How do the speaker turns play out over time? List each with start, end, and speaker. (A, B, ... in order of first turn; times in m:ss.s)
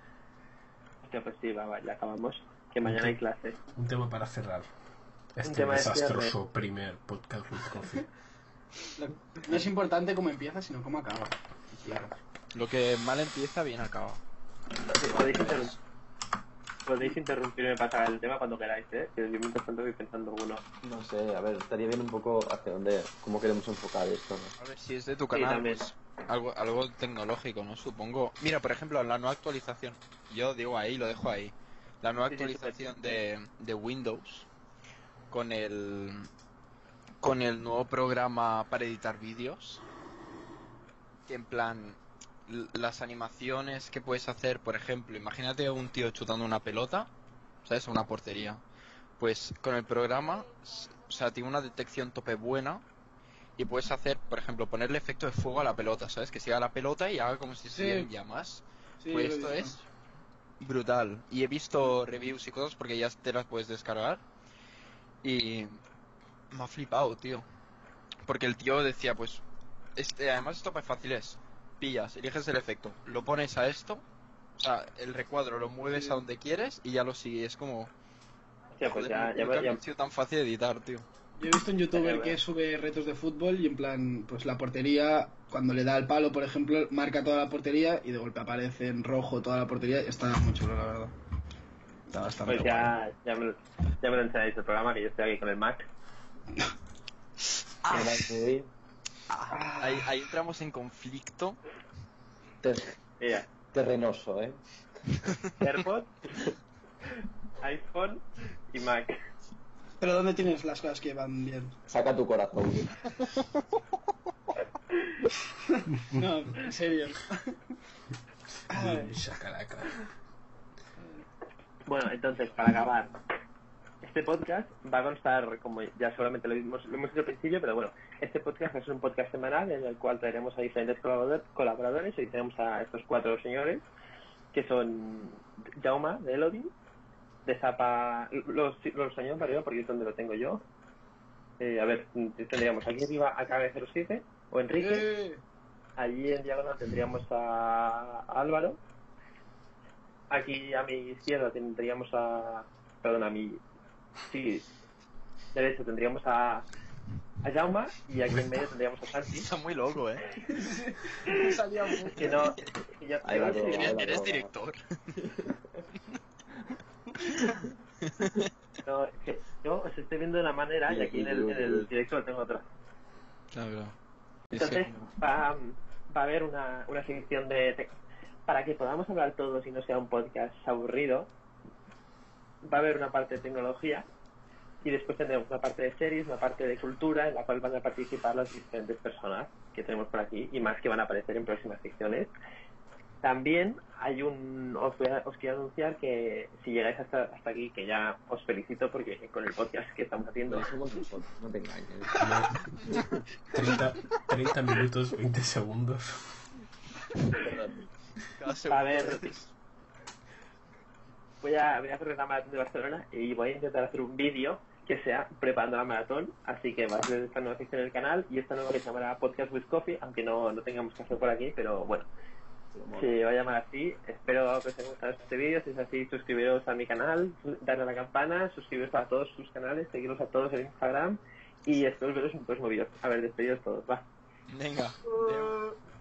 0:01.0-0:03.6 A
0:02.8-0:03.1 B
0:03.7-0:04.6 B
0:05.3-0:08.1 B
0:05.4-0:06.3 A
0:08.9-0:12.1 C
0:12.5-0:14.2 D
0:14.9-0:15.5 E
0:15.1-0:15.7 A
0:15.1-0:15.8 D
0:16.8-0:20.6 A
0:20.8-0:24.5 E
0:24.6-0:34.5 D
0:25.3-0:25.8 A
0:32.3-0:32.8 A
0:35.3-0:36.3 D
0:37.2-0:39.8 D
0:41.3-0:47.1 D
0:47.6-0:48.6 D
0:49.2-0:52.8 D
0:53.6-0:59.9 D
0:57.7-0:58.1 C
0:59.0-0:59.8 C
1:00.6-1:04.2 D
1:05.2-1:05.8 D
1:06.5-1:07.4 D
1:08.2-1:09.4 D
1:10.0-1:14.0 D
1:14.6-1:17.9 D
1:15.9-1:16.2 C
1:18.8-1:19.8 A
1:18.8-1:21.0 D
1:21.4-1:31.1 C
1:21.9-1:22.4 A
1:32.1-1:32.9 C
1:32.4-1:35.8 A
1:37.8-1:38.3 D
1:37.9-1:38.7 E
1:39.3-1:41.6 D
1:39.5-1:40.2 C
1:42.6-1:43.0 E
1:43.2-1:43.5 A
1:43.7-1:44.6 E
1:45.2-1:45.5 D
1:45.6-1:46.3 A
1:47.6-1:49.2 A
1:50.0-1:51.8 C
1:51.9-1:53.0 E
1:55.7-1:57.7 C
1:58.7-2:00.0 B
1:58.7-1:59.2 C
2:01.0-2:01.2 C
2:01.9-2:03.1 A
2:04.0-2:13.8 A
2:14.5-2:16.7 A
2:17.4-2:20.6 A
2:21.6-2:25.1 A
2:24.8-2:25.4 C
2:26.0-2:28.8 A
2:30.3-2:33.6 A
2:34.3-2:34.7 A
2:35.5-2:36.7 A
2:37.4-2:39.5 A
2:39.3-2:40.2 D
2:40.4-2:42.5 C
2:41.2-2:41.6 A
2:42.1-2:44.0 A
2:43.2-2:44.5 E
2:43.4-2:45.1 D
2:45.2-2:45.8 E
2:47.4-2:47.7 E
2:48.0-2:48.5 D
2:48.8-2:52.6 A
2:50.9-2:51.9 E
2:53.5-2:53.9 D
2:54.5-2:55.0 D
2:54.5-2:57.9 A
2:58.5-3:01.3 A
3:02.6-3:04.0 A
3:04.8-3:12.3 A
3:13.2-3:20.7 A
3:20.4-3:22.3 E
3:22.2-3:22.7 B
3:22.9-3:23.2 E
3:23.5-3:26.2 B
3:23.6-3:23.8 C
3:27.4-3:27.8 E
3:28.4-3:29.5 D
3:28.7-3:29.3 A
3:31.4-3:42.1 A
3:42.7-3:43.1 E
3:42.9-3:54.0 A
3:54.5-3:55.6 D